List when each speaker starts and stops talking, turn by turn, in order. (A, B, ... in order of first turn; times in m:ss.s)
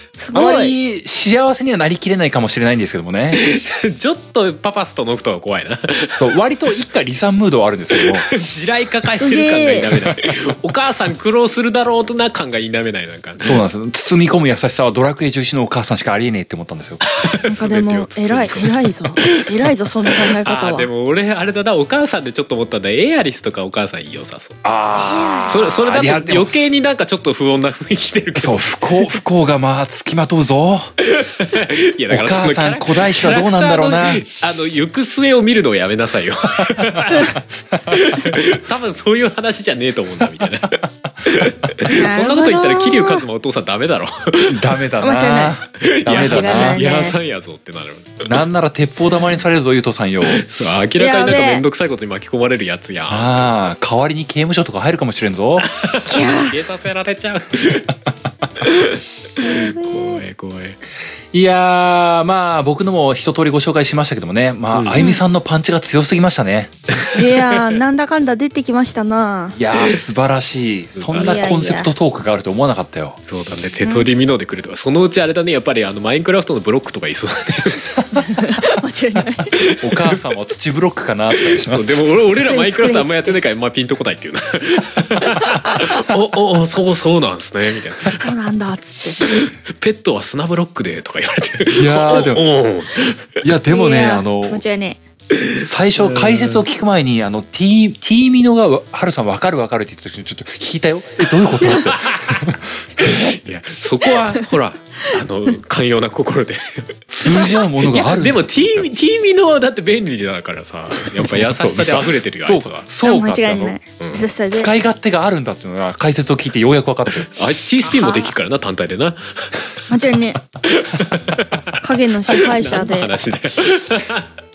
0:00.2-0:00.8 A
0:00.3-0:03.4 B
0:03.3-0:06.3 C
0:06.2-0:08.3 B
0:08.0-0:13.6 C
0:09.2-0:09.9 A
0:13.4-0:17.0 B
0:17.1-0:24.6 C
0:17.5-0:20.9 A
0:24.6-0:26.5 B
0:24.9-0:25.6 A
0:25.5-0:29.2 C
0:28.4-0:30.9 B
0:31.0-0:44.7 C
0:32.1-0:34.2 B
0:36.8-0:37.0 B
0:40.4-0:40.6 B
0:41.9-0:43.2 A
0:44.5-0:46.8 B
0:45.0-0:45.6 A
0:45.8-0:48.3 C
0:46.1-0:47.2 A
0:48.2-0:50.4 B
0:49.0-0:49.3 A
0:50.3-0:53.5 C
0:51.0-0:51.6 A
0:53.1-0:55.7 B
0:55.6-0:58.0 C
0:56.0-0:56.6 A
0:58.6-1:00.8 C
0:59.4-1:00.2 A
1:01.3-1:06.7 B
1:04.7-1:05.1 C
1:04.9-1:05.2 A
1:06.9-1:07.8 C
1:07.1-1:09.9 A
1:09.6-1:13.2 B
1:11.0-1:11.4 C
1:11.1-1:11.9 A
1:13.3-1:18.0 C
1:13.8-1:14.1 A
1:18.1-1:19.5 A
1:19.5-1:20.2 C
1:19.8-1:21.9 B
1:21.4-1:28.3 C
1:22.3-1:23.4 A
1:25.2-1:25.9 A
1:28.2-1:29.3 A
1:29.2-1:33.3 C
1:31.8-1:32.5 B
1:33.4-1:34.6 B
1:33.7-1:35.0 A
1:35.4-1:36.6 C
1:35.6-1:43.4 B
1:41.6-1:42.5 C
1:43.0-1:52.9 C
1:47.1-1:48.9 B
1:51.2-1:53.8 B
1:53.0-1:54.7 A
1:54.0-1:54.3 C
1:54.5-1:57.3 B
1:57.1-1:59.6 C
1:57.9-1:58.3 A
1:59.9-2:00.4 A
2:00.6-2:01.8 C
2:01.8-2:03.1 A
2:02.3-2:04.3 C